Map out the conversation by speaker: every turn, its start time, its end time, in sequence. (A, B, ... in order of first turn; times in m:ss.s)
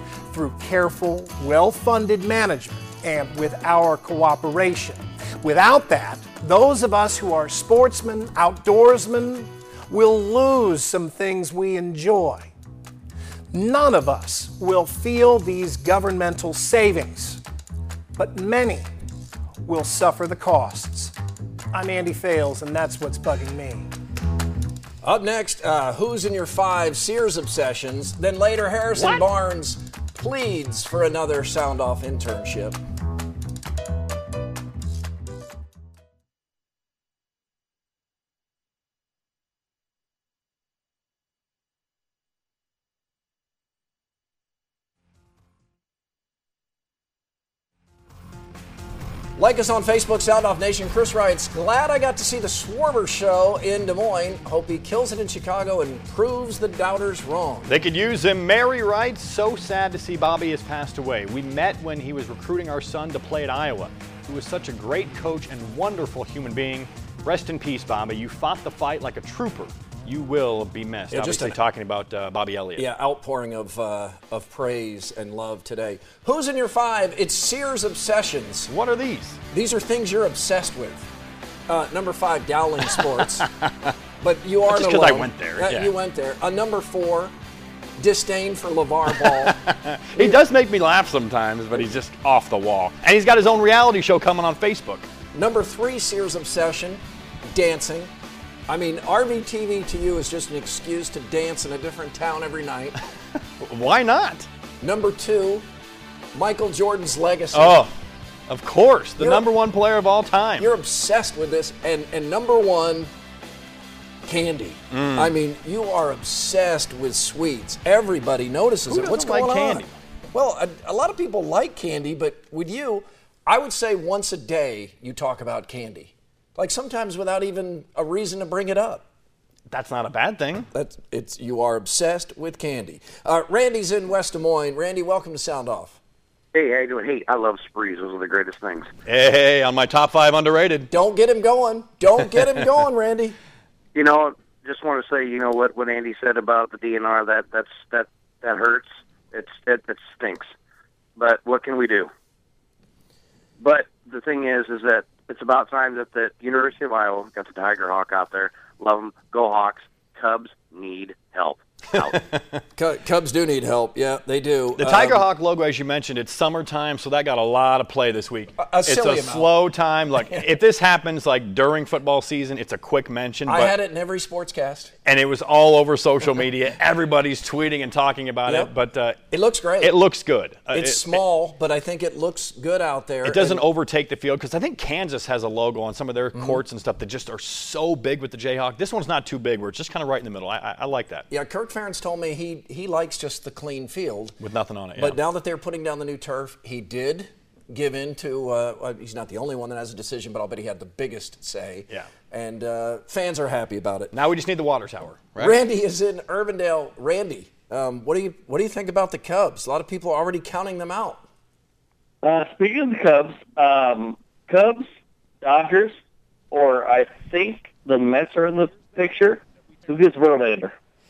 0:00.3-0:12.5 A
0:13.5-0:17.4 A
0:18.2-0:18.9 A
0:19.6-0:21.1 A
0:21.7-0:23.9 A
0:25.0-0:32.8 B
0:29.0-0:29.2 C
0:49.4-0:57.7 B
0:57.7-1:12.9 C
1:11.1-1:11.6 B
1:12.8-1:18.7 B
1:18.7-1:19.4 C
1:19.5-1:21.1 B
1:21.7-1:23.5 B
1:23.0-1:23.9 C
1:24.2-1:27.3 B
1:24.7-1:25.9 C
1:28.0-1:29.6 B
1:29.1-1:35.1 C
1:35.3-1:38.1 B
1:38.7-1:43.0 B
1:43.6-1:44.5 C
1:44.8-1:45.7 B
1:46.3-1:47.9 B
1:47.5-1:47.9 C
1:48.5-1:50.7 C
1:49.2-1:49.4 B
1:50.6-1:53.1 B
1:54.2-2:09.1 B
1:54.9-1:55.3 C
1:58.9-2:00.0 C
2:09.7-2:10.7 C
2:10.7-2:16.0 B
2:16.5-2:18.9 D
2:19.1-2:20.9 C
2:20.9-2:23.4 B
2:24.0-2:30.5 D
2:31.2-2:32.1 D
2:33.6-2:42.2 D
2:42.8-2:45.3 B
2:44.8-2:53.7 C
2:48.6-2:49.5 B
2:50.2-2:50.5 B
2:53.5-2:54.9 B
2:55.0-2:59.2 C
2:58.5-2:58.7 B
2:59.3-3:00.0 B
2:59.8-3:01.2 C
3:00.7-3:03.6 B
3:03.2-3:11.3 C
3:11.3-3:14.4 B
3:14.4-3:15.2 C
3:15.0-3:24.1 B
3:24.1-3:25.6 C
3:25.4-3:31.2 B
3:32.2-3:34.9 E
3:35.4-3:36.0 E
3:36.5-3:40.8 E